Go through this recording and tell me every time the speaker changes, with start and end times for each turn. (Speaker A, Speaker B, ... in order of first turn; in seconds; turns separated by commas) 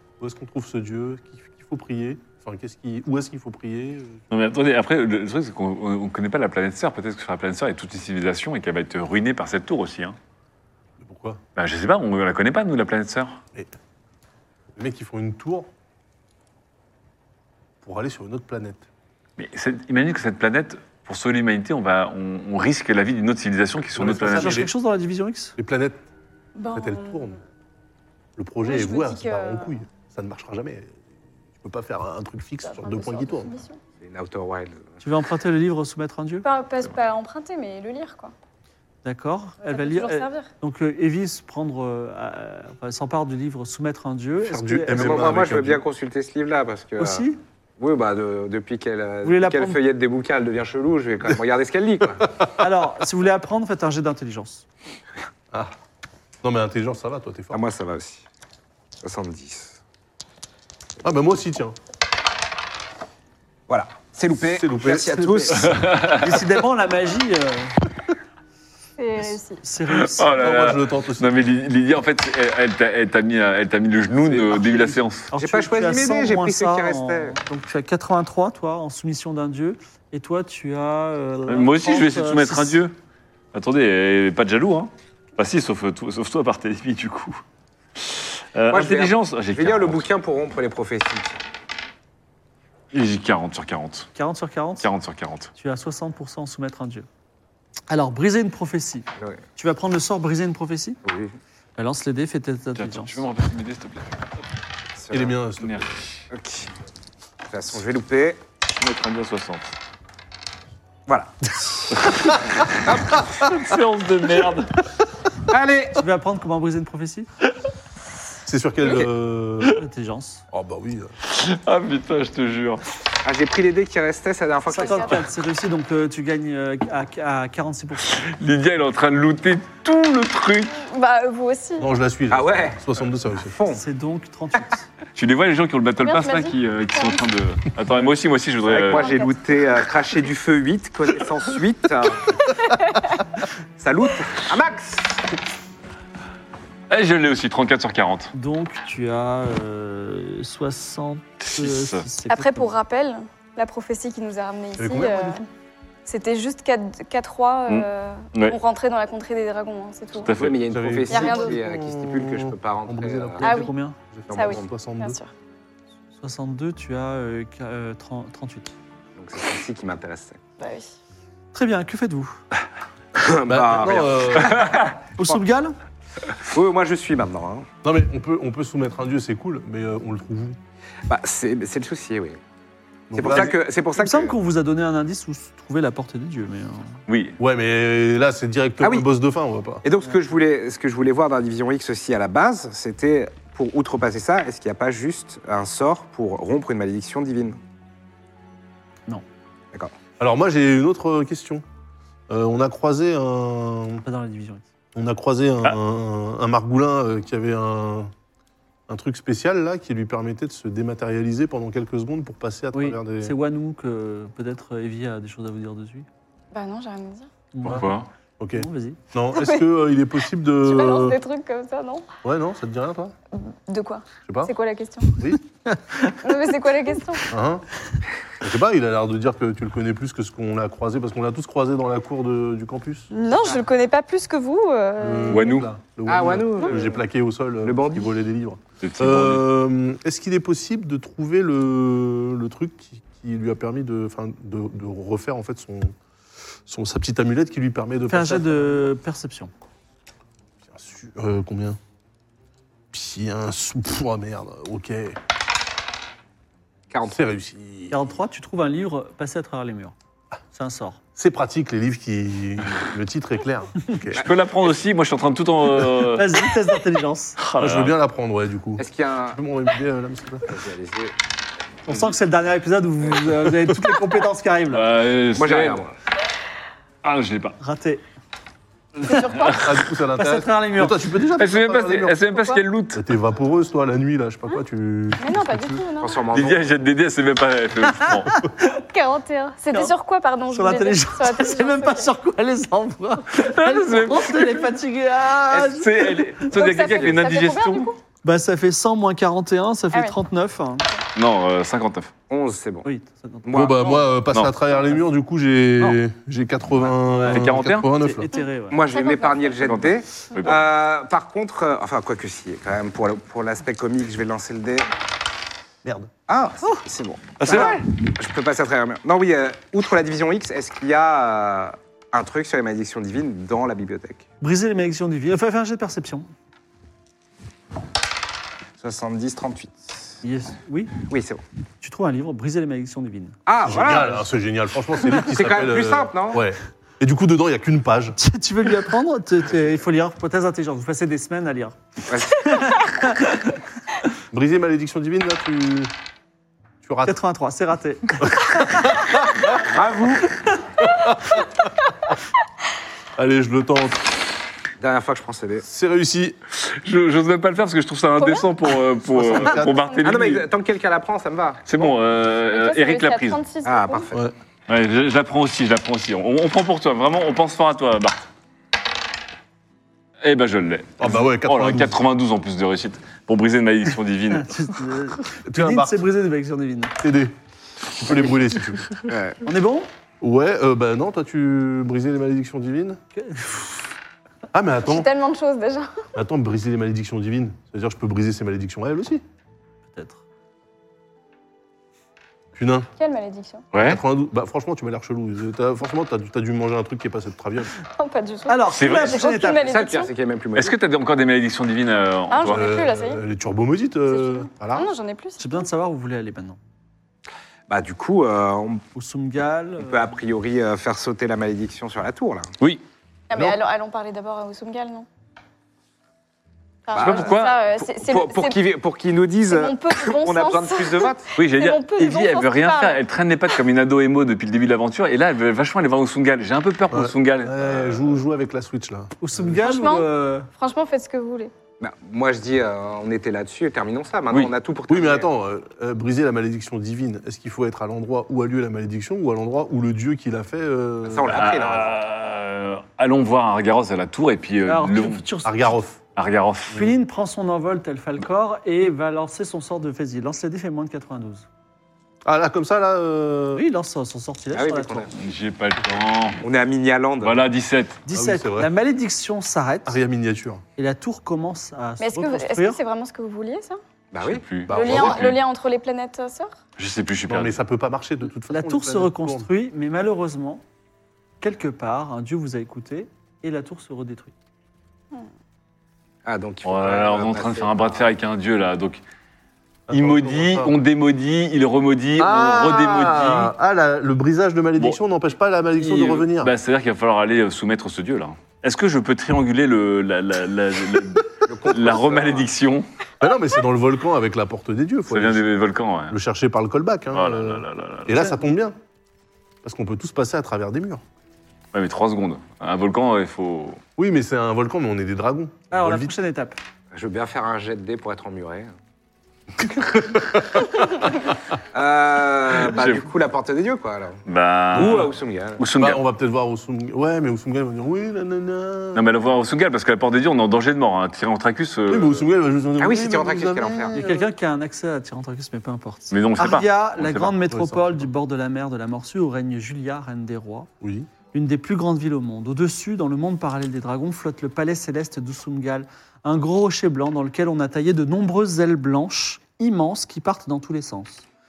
Speaker A: 0.2-4.2, Speaker B: 4.3-10.2, Speaker A: 11.0-11.4, Speaker B: 11.6-13.4, Speaker A: 14.8-15.7, Speaker A: 17.8-18.9, Speaker B: 19.4-24.6, Speaker A: 23.9-24.7, Speaker C: 24.3-25.6, Speaker A: 25.6-26.0, Speaker D: 26.6-27.4, Speaker A: 26.7-27.4, Speaker A: 28.4-31.0, Speaker D: 28.6-29.8, Speaker A: 31.6-33.6, Speaker D: 32.6-33.8, Speaker E: 34.0-34.9, Speaker C: 35.0-36.5, Speaker D: 36.4-38.3, Speaker C: 39.0-45.4, Speaker D: 39.7-40.5, Speaker A: 44.4-45.8, Speaker E: 44.9-52.3, Speaker C: 47.0-47.4, Speaker C: 49.2-49.8, Speaker C: 52.6-54.6, Speaker A: 56.4-57.6, Speaker E: 57.5-58.2, Speaker E: 59.0-59.8, Speaker A: 61.0-61.8, Speaker E: 63.7-65.8, Speaker A: 64.4-65.3, Speaker C: 65.0-67.8, Speaker B: 65.7-66.4, Speaker D: 69.0-69.6, Speaker C: 69.6-70.7, Speaker B: 69.9-75.3, Speaker A: 70.4-71.5, Speaker C: 74.6-82.8, Speaker E: 75.4-77.4, Speaker B: 81.5-82.9, Speaker B: 83.5-87.4, Speaker B: 88.0-90.1, Speaker E: 88.7-91.4, Speaker B: 92.9-94.1, Speaker C: 94.2-94.9, Speaker B: 94.8-95.5, Speaker C: 95.6-97.1, Speaker C: 97.9-101.0, Speaker E: 101.0-101.3, Speaker C: 101.8-103.2, Speaker B: 102.8-104.2, Speaker E: 105.0-105.4, Speaker A: 105.1-105.9, Speaker B: 105.6-105.9, Speaker E: 106.3-106.7, Speaker E: 107.5-108.4, Speaker B: 108.7-109.7, Speaker E: 111.1-113.3, Speaker B: 113.3-114.8, Speaker E: 115.5-116.0, Speaker C: 116.0-117.3, Speaker A: 118.5-119.8, Speaker E: 118.8-119.1, Speaker C: 119.7-120.4, Speaker A: 120.5-121.1, Speaker B: 121.2-122.8, Speaker E: 123.2-125.2, Speaker C: 124.7-128.2, Speaker D: 124.8-125.1, Speaker B: 128.1-130.8, Speaker D: 130.7-131.9, Speaker A: 131.8-133.6, Speaker E: 132.3-132.8, Speaker E: 133.5-133.8, Speaker C: 133.7-134.9, Speaker B: 135.2-139.1, Speaker D: 136.0-137.3, Speaker E: 138.7-142.5, Speaker D: 138.9-139.3, Speaker D: 142.9-143.1, Speaker E: 143.8-145.2, Speaker B: 146.9-148.3, Speaker C: 148.3-152.7, Speaker B: 151.5-152.1, Speaker D: 152.3-155.4, Speaker A: 154.8-155.4, Speaker D: 156.1-160.3, Speaker B: 157.7-158.6, Speaker B: 160.2-160.6, Speaker E: 160.3-163.4, Speaker A: 160.7-163.5, Speaker D: 161.1-161.6, Speaker C: 163.4-164.0, Speaker D: 163.4-163.7, Speaker A: 164.1-165.2, Speaker E: 164.3-164.7, Speaker D: 164.3-165.3, Speaker C: 166.2-168.7, Speaker E: 169.2-170.4, Speaker D: 170.6-170.9, Speaker C: 171.5-172.4, Speaker E: 173.2-175.4, Speaker A: 173.5-174.7, Speaker C: 175.2-175.8, Speaker E: 176.4-177.7, Speaker A: 177.8-180.6, Speaker E: 181.1-182.4, Speaker A: 183.1-183.5, Speaker E: 183.1-184.3, Speaker C: 184.0-187.0, Speaker B: 187.1-187.4, Speaker A: 187.4-189.8, Speaker E: 188.8-189.1, Speaker E: 189.8-197.6, Speaker A: 200.2-201.6, Speaker A: 202.3-204.0, Speaker C: 204.1-204.7, Speaker A: 204.9-208.1, Speaker A: 208.9-213.3, Speaker C: 212.7-216.1, Speaker D: 216.5-217.3, Speaker C: 217.5-217.9, Speaker B: 217.7-218.1, Speaker A: 218.4-221.2, Speaker C: 218.6-219.0, Speaker D: 219.3-219.6, Speaker D: 220.6-222.1, Speaker A: 222.2-223.2, Speaker D: 223.3-225.2, Speaker A: 224.3-224.5, Speaker C: 225.7-226.2, Speaker D: 226.2-227.3, Speaker A: 227.3-227.7, Speaker A: 228.4-233.1, Speaker D: 233.1-235.6, Speaker A: 235.0-245.9, Speaker B: 235.3-235.7, Speaker E: 236.1-237.0, Speaker E: 237.6-238.1, Speaker B: 238.8-239.4, Speaker A: 246.7-248.9, Speaker C: 248.1-249.5, Speaker A: 250.7-251.8, Speaker A: 252.9-255.2, Speaker E: 256.9-257.2, Speaker A: 257.1-258.1, Speaker C: 257.9-259.9, Speaker C: 260.5-261.0, Speaker A: 261.2-264.2, Speaker B: 264.1-266.4, Speaker C: 266.1-267.4, Speaker B: 267.4-267.9, Speaker A: 267.6-270.5, Speaker E: 268.8-269.4, Speaker E: 270.5-271.1, Speaker C: 271.9-274.9, Speaker B: 274.7-275.8, Speaker E: 275.4-275.9, Speaker B: 277.0-277.6, Speaker C: 277.6-278.0, Speaker C: 279.1-279.6, Speaker B: 279.1-279.8, Speaker A: 279.4-282.2, Speaker C: 280.1-281.0, Speaker B: 281.4-283.0, Speaker D: 282.3-282.6, Speaker A: 282.9-285.8, Speaker D: 285.2-286.2, Speaker E: 286.0-286.8, Speaker B: 286.3-288.3, Speaker C: 288.0-288.8, Speaker D: 288.8-292.1, Speaker C: 290.5-296.5, Speaker B: 293.3-294.7, Speaker B: 295.5-297.9, Speaker D: 296.5-298.0, Speaker C: 298.2-300.9, Speaker B: 301.1-302.1, Speaker E: 302.3-302.9, Speaker C: 302.9-303.5, Speaker E: 303.4-304.1, Speaker A: 303.5-308.3, Speaker C: 307.1-308.8, Speaker B: 307.3-307.9, Speaker D: 308.3-309.6, Speaker E: 308.7-314.9, Speaker B: 309.6-310.6, Speaker A: 315.8-316.1, Speaker E: 316.3-324.2, Speaker B: 317.4-317.9, Speaker C: 324.4-326.3, Speaker E: 328.8-329.8, Speaker C: 330.2-331.0, Speaker E: 331.1-331.4, Speaker C: 331.8-333.4, Speaker E: 333.5-334.2, Speaker A: 333.6-338.2, Speaker E: 335.1-336.4, Speaker C: 338.2-341.8, Speaker E: 342.1-342.8, Speaker C: 342.5-343.4, Speaker A: 344.3-345.9, Speaker A: 346.8-347.2, Speaker C: 347.1-349.0, Speaker A: 348.2-349.4, Speaker E: 349.6-350.4, Speaker A: 350.8-351.5, Speaker A: 353.2-354.1, Speaker E: 354.8-355.7, Speaker A: 355.7-356.4, Speaker B: 356.6-360.5, Speaker D: 358.2-358.5, Speaker A: 359.1-359.8, Speaker D: 359.4-360.1, Speaker E: 360.0-361.9, Speaker B: 361.7-363.4, Speaker D: 362.5-364.1, Speaker E: 363.6-364.3, Speaker B: 364.7-368.3, Speaker B: 370.2-374.6, Speaker A: 371.0-372.0, Speaker C: 374.3-376.9, Speaker A: 375.5-376.1, Speaker A: 377.0-377.3, Speaker A: 377.9-379.0, Speaker E: 379.1-379.4, Speaker C: 379.4-379.9, Speaker A: 380.2-383.0, Speaker C: 383.2-383.8, Speaker A: 384.5-385.1, Speaker D: 384.8-386.1, Speaker A: 386.1-389.2, Speaker C: 389.9-390.2, Speaker A: 392.6-392.9, Speaker D: 393.0-393.7, Speaker B: 393.7-394.0, Speaker A: 393.8-397.7, Speaker D: 397.8-400.1, Speaker C: 398.5-399.7, Speaker B: 398.7-399.2, Speaker E: 399.6-400.8, Speaker B: 400.6-402.6, Speaker D: 402.3-403.2, Speaker A: 402.4-404.9, Speaker D: 404.1-405.6, Speaker C: 405.4-406.6, Speaker E: 407.7-408.8, Speaker C: 408.9-410.1, Speaker E: 409.8-412.5, Speaker D: 413.3-415.1, Speaker D: 416.9-418.6, Speaker E: 416.9-421.3, Speaker B: 416.9-417.6, Speaker D: 419.5-423.0, Speaker B: 421.4-428.2, Speaker A: 426.9-429.5, Speaker C: 429.2-430.5, Speaker D: 429.6-431.5, Speaker E: 431.8-435.3, Speaker A: 434.9-441.5, Speaker E: 441.1-442.0, Speaker B: 441.3-445.2, Speaker C: 444.7-445.8, Speaker A: 445.4-446.0, Speaker B: 446.2-446.9, Speaker C: 446.7-451.5, Speaker A: 452.2-453.6, Speaker C: 453.6-455.1, Speaker E: 454.5-455.1, Speaker B: 455.1-456.4, Speaker E: 456.4-457.4, Speaker B: 457.2-458.0, Speaker C: 458.1-460.0, Speaker A: 458.1-458.7, Speaker A: 459.9-460.6, Speaker C: 460.8-462.8, Speaker D: 462.0-463.8, Speaker E: 464.1-465.1, Speaker B: 464.2-465.4, Speaker D: 464.7-466.6, Speaker A: 464.7-465.2, Speaker B: 466.8-467.6, Speaker A: 467.3-469.5, Speaker C: 468.5-470.6, Speaker C: 471.4-474.3, Speaker E: 476.2-478.1, Speaker B: 476.6-479.0, Speaker A: 479.9-480.8, Speaker B: 479.9-483.5, Speaker A: 482.2-486.5, Speaker B: 485.8-492.9, Speaker E: 491.5-492.5, Speaker A: 493.2-495.4, Speaker B: 495.1-496.2, Speaker A: 496.1-498.8, Speaker B: 497.1-498.2, Speaker A: 499.6-501.0, Speaker B: 501.7-503.8, Speaker A: 504.0-506.1, Speaker C: 505.7-506.6, Speaker E: 506.9-508.7, Speaker E: 511.7-514.2, Speaker B: 512.7-513.1, Speaker B: 514.3-516.0, Speaker E: 514.7-515.6, Speaker A: 515.8-519.0, Speaker B: 519.0-522.2, Speaker A: 521.9-524.3, Speaker E: 522.8-524.0, Speaker C: 523.9-530.7, Speaker B: 526.1-527.4, Speaker A: 527.5-528.1, Speaker A: 530.8-531.1, Speaker C: 531.3-541.2